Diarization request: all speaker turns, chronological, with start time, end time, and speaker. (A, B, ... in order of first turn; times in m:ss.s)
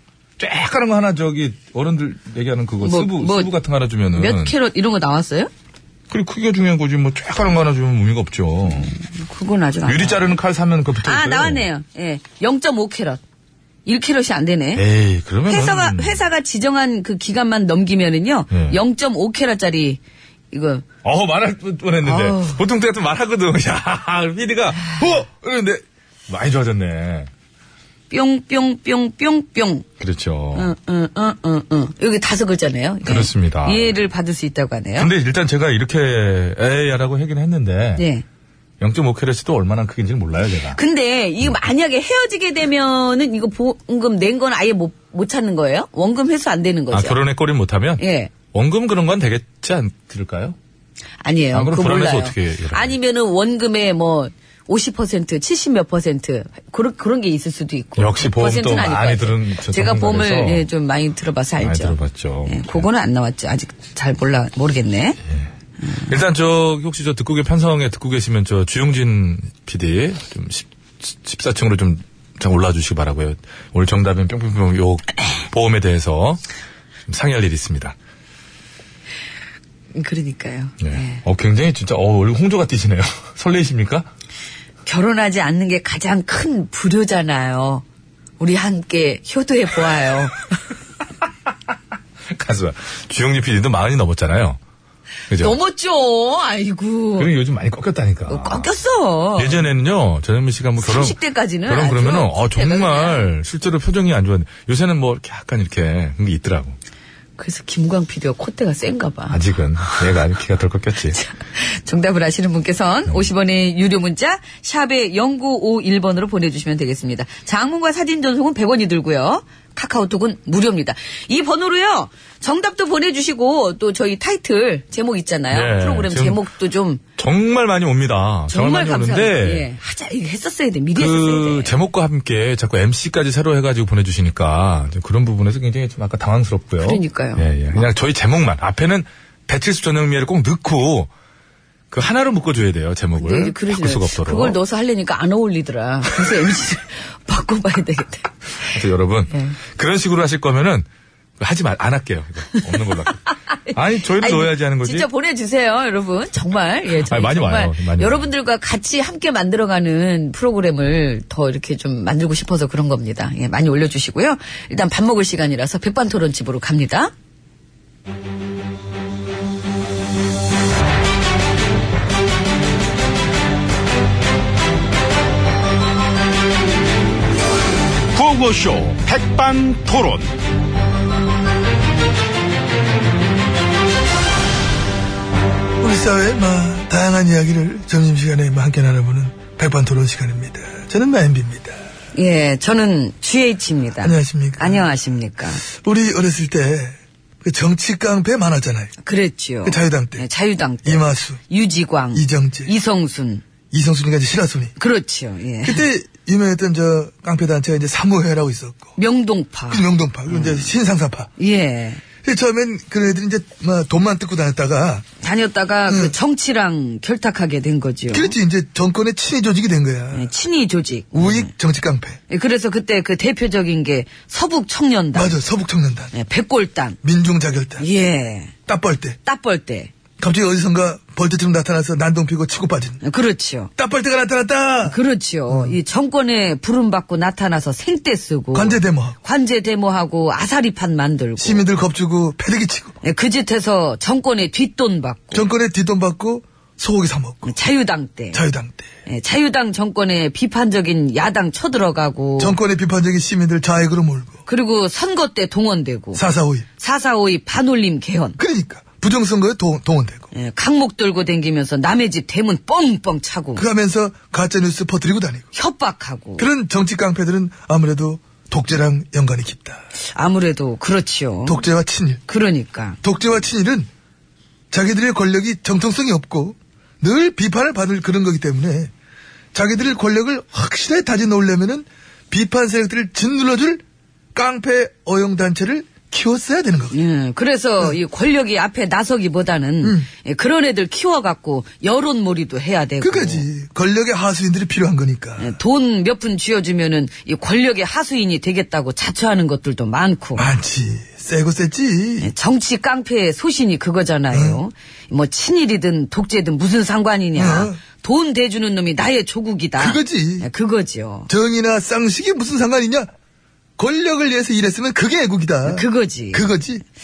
0:00.4-0:04.5 A
0:02.8-0:03.5 B
0:04.2-0:05.5 B
0:06.1-0:08.9 A
0:08.7-0:10.4 B
0:09.9-0:11.7 A
0:11.0-0:13.2 B
0:13.9-0:14.8 B
0:14.8-0:16.2 A
0:15.5-0:20.0 B
0:18.5-0:18.8 A
0:20.5-0:20.8 B
0:21.0-0:27.3 A
0:22.0-0:22.6 B
0:28.1-0:29.8 B
0:30.0-0:30.7 A
0:30.5-0:35.1 B
0:33.0-0:34.0 A
0:35.0-0:38.0 A
0:38.0-0:38.2 B
0:38.8-0:40.8 A
0:40.8-0:47.2 B
0:46.9-0:50.6 A
0:48.0-0:48.3 B
0:51.2-1:05.2 B
0:51.5-0:52.9 A
0:58.0-1:00.7 A
1:01.6-1:02.8 A
1:06.0-1:16.4 A
1:17.1-1:18.0 A
1:19.9-1:21.2 B
1:20.8-1:24.1 A
1:24.9-1:27.8 B
1:28.4-1:30.5 B
1:32.3-1:34.6 A
1:35.3-1:35.6 A
1:35.3-1:37.3 B
1:37.2-1:38.7 A
1:38.3-1:39.6 B
1:39.4-1:46.8 A
1:40.8-1:43.3 B
1:47.4-1:49.4 B
1:49.3-1:51.2 A
1:51.2-2:07.0 B
2:05.5-2:06.4 A
2:07.2-2:09.7 A
2:08.5-2:11.7 B
2:11.0-2:21.1 A
2:16.8-2:17.8 B
2:21.9-2:24.6 A
2:23.2-2:28.3 B
2:28.7-2:30.9 A
2:31.4-2:35.1 A
2:33.5-2:47.1 B
2:37.0-2:38.3 A
2:58.2-3:00.3 A
3:05.8-3:11.8 C
3:12.2-3:15.6 B
3:14.0-3:14.8 C
3:15.7-3:18.9 C
3:19.0-3:23.4 B
3:19.6-3:20.3 C
3:20.8-3:21.4 C
3:22.1-3:22.7 C
3:23.7-3:24.7 C
3:24.8-3:25.8 B
3:25.6-3:28.9 C
3:29.0-3:30.7 B
3:29.7-3:31.3 C
3:31.4-3:32.0 B
3:32.2-3:35.1 C
3:35.2-3:38.4 B
3:35.9-3:36.2 C
3:38.1-3:40.3 C
3:40.1-3:41.5 B
3:41.1-3:42.2 C
3:42.3-3:45.4 B
3:45.1-3:46.1 C
3:46.1-3:47.0 B
3:47.0-3:47.8 C
3:47.8-3:48.5 B
3:48.7-3:49.2 C
3:49.2-3:49.9 B
3:50.2-3:53.0 C
3:53.0-3:53.7 B
3:53.8-3:55.8 C
3:54.8-4:01.7 B
3:58.5-3:59.2 C
4:01.4-4:03.0 C
4:03.0-4:05.5 B
4:05.3-4:07.5 C
4:07.4-4:08.4 B
4:08.3-4:08.9 C
4:09.1-4:12.6 B
4:12.4-4:14.4 C
4:14.5-4:16.2 B
4:16.2-4:16.7 C
4:16.8-4:18.4 B
4:18.4-4:20.3 C
4:20.3-4:23.6 B
4:23.6-4:25.5 C
4:25.5-4:26.5 B
4:26.4-4:29.8 C
4:30.2-4:31.6 B
4:31.5-4:32.2 C
4:32.3-4:33.0 B
4:33.0-4:33.9 C
4:34.7-4:38.9 C
4:39.5-4:43.8 C
4:44.3-4:47.0 C
4:46.9-4:53.5 B
4:49.8-4:50.1 C
4:53.0-4:55.6 C
4:55.4-5:00.5 B
5:00.4-5:02.3 C
5:02.2-5:11.3 B
5:04.3-5:04.6 C
5:07.4-5:07.8 C
5:09.8-5:10.5 C
5:11.3-5:13.1 C
5:13.8-5:16.8 C
5:15.6-5:16.5 B